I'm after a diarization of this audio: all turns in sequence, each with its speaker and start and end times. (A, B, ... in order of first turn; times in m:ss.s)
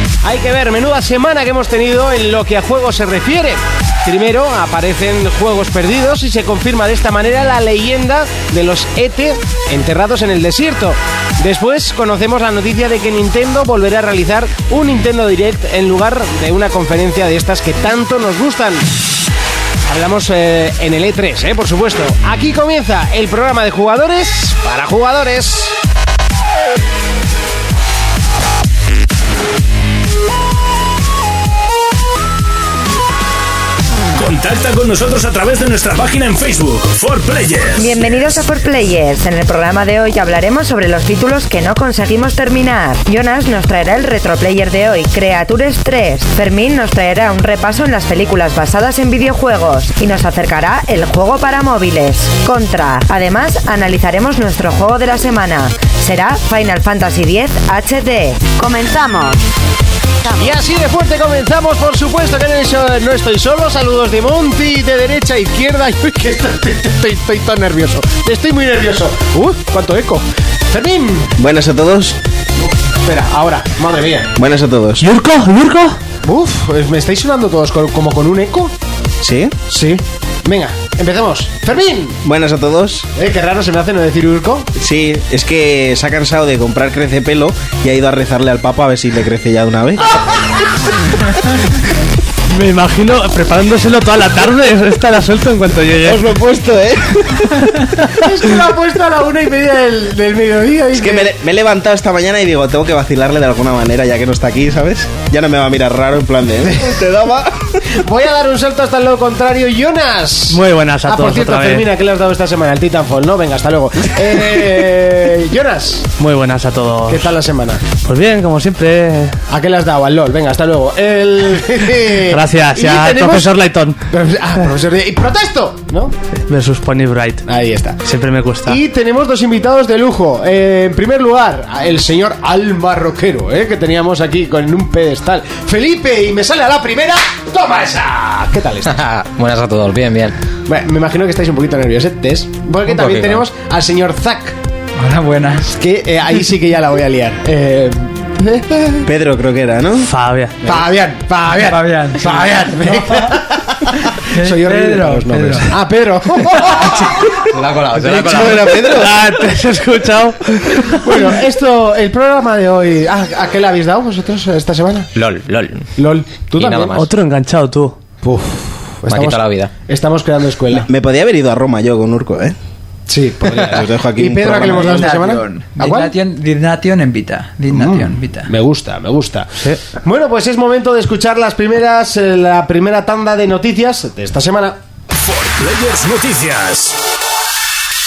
0:00.2-0:18.9 A
0:19.9-0:25.8 A
0:34.1-0:38.3 B
0:37.8-0:59.4 C
1:00.2-1:00.5 C
1:00.4-1:11.3 A
1:11.4-1:12.2 D
1:13.0-1:14.3 A
1:14.4-1:15.1 D
1:15.0-1:16.0 E
1:16.2-1:18.7 A
1:19.2-1:19.6 D
1:19.7-1:22.2 A
1:22.2-1:23.1 D
1:23.2-1:24.7 A
1:24.8-1:30.2 D
1:32.5-1:36.3 E
1:36.0-1:38.1 D
1:38.0-1:41.3 A
1:40.9-1:47.8 D
1:46.7-1:47.0 A
1:47.9-1:56.1 A
1:50.5-1:51.9 E
1:56.2-1:57.3 E
1:57.1-1:57.8 A
1:58.0-1:59.4 E
1:59.5-2:03.5 A
2:02.2-2:04.0 E
2:04.1-2:06.1 A
2:06.5-2:07.5 E
2:07.5-2:08.0 A
2:08.0-2:08.8 E
2:08.6-2:19.0 A
2:18.9-2:20.3 F
2:20.6-2:24.6 A
2:22.9-2:23.4 F
2:25.0-2:25.7 G
2:25.6-2:29.1 A
2:29.0-2:30.1 D
2:30.0-2:30.6 E
2:30.6-2:39.2 A
2:31.5-2:33.3 G
2:34.3-2:35.8 G
2:37.4-2:38.9 F
2:38.3-2:39.1 D
2:38.8-2:41.2 E
2:40.8-2:45.1 A
2:45.1-2:45.9 F
2:46.0-2:47.0 A
2:46.6-2:47.1 F
2:46.9-2:48.0 E
2:48.2-2:50.9 A
2:49.1-2:49.7 F
2:50.7-2:52.6 D
2:53.1-2:56.1 A
2:53.6-2:55.2 D
2:54.4-2:58.5 G
2:57.7-3:04.8 A
3:05.1-3:07.0 B